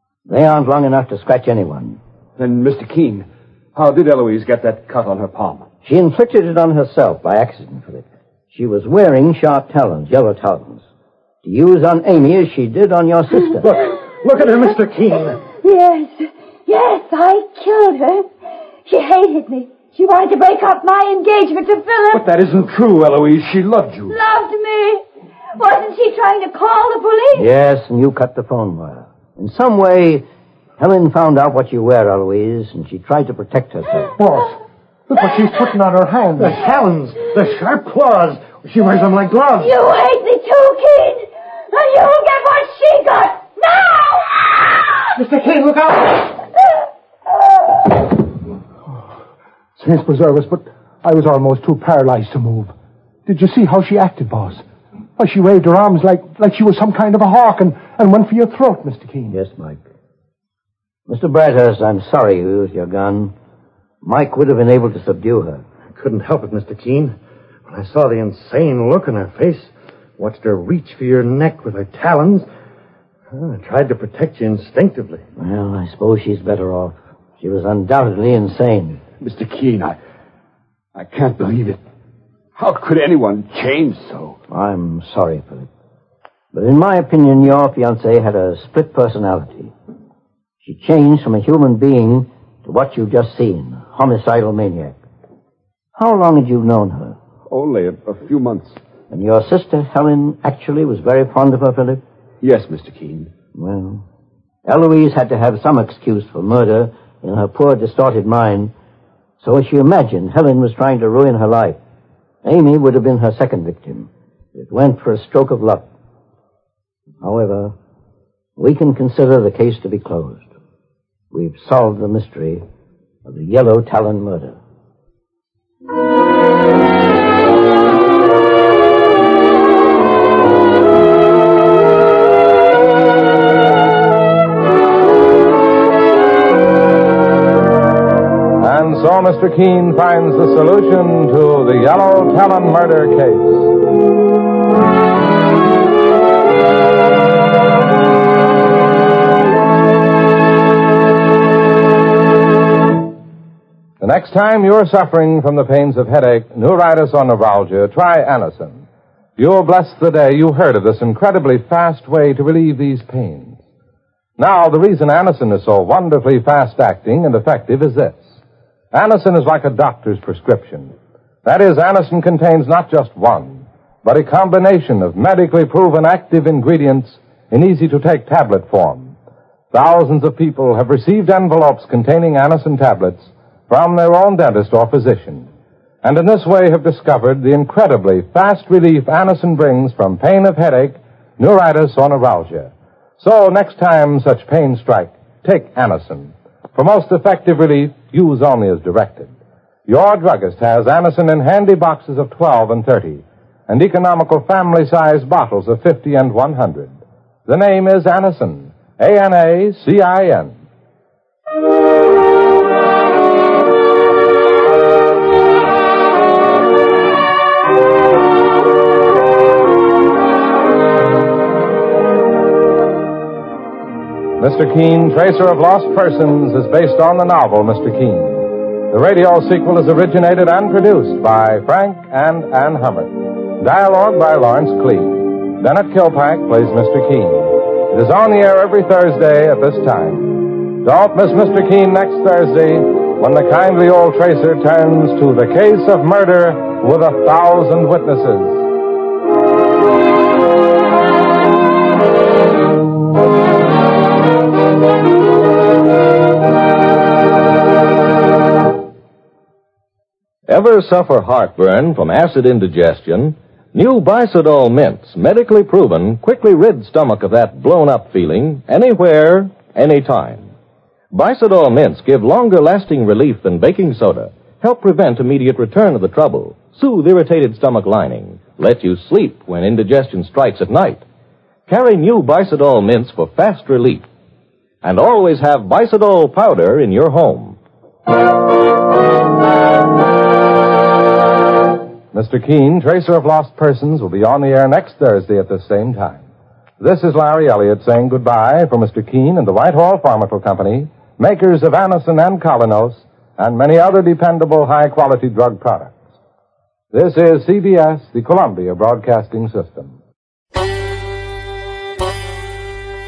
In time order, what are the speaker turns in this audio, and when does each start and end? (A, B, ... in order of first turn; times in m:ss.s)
0:00.2-0:02.0 A
0:02.4-0:05.7 B
0:05.8-0:10.8 A
0:11.4-0:13.7 A
0:14.2-0:15.4 C
0:15.5-0:18.3 D
0:18.8-0:22.3 D
0:22.4-0:24.1 E
0:23.0-0:23.6 B
0:24.1-0:25.0 D
0:25.5-0:27.5 D
0:27.3-0:30.2 A
0:30.8-0:34.1 A
0:34.2-0:34.6 E
0:35.1-0:36.6 E
0:36.4-0:39.7 C
0:39.6-0:44.2 D
0:45.2-0:46.2 C
0:49.8-0:52.7 E
0:53.2-0:54.6 E
0:55.2-0:59.4 E
0:59.3-0:59.8 A
1:01.1-1:03.3 A
1:04.0-1:05.6 A
1:06.0-1:07.2 C
1:07.7-1:12.5 C
1:13.3-1:15.2 C
1:15.4-1:19.0 A
1:19.2-1:20.0 B
1:20.9-1:21.8 B
1:22.6-1:24.4 B
1:24.5-1:25.7 A
1:26.5-1:29.7 A
1:30.6-1:35.0 A
1:36.0-1:37.2 A
1:37.5-1:38.8 B
1:39.1-1:42.0 A
1:42.4-1:43.3 B
1:43.5-1:44.0 A
1:44.6-1:48.7 A
1:49.4-1:51.8 A
1:52.4-1:55.9 A
1:57.2-1:57.7 A
1:58.6-2:00.4 A
2:01.3-2:02.6 A
2:03.2-2:04.6 A
2:18.6-2:23.7 F
2:34.0-2:38.8 F
2:39.4-2:43.6 F
2:44.4-2:48.2 F
2:48.9-2:50.9 F
2:51.4-2:59.1 F
2:59.7-3:05.5 F
3:06.0-3:19.3 F
3:19.9-3:30.5 F
3:44.4-4:08.6 F
4:20.5-4:30.5 G
4:31.1-4:41.0 G
4:41.7-4:44.0 G
4:44.8-4:47.6 G
4:52.1-4:56.2 F
4:56.8-5:05.9 F
5:06.9-5:10.0 F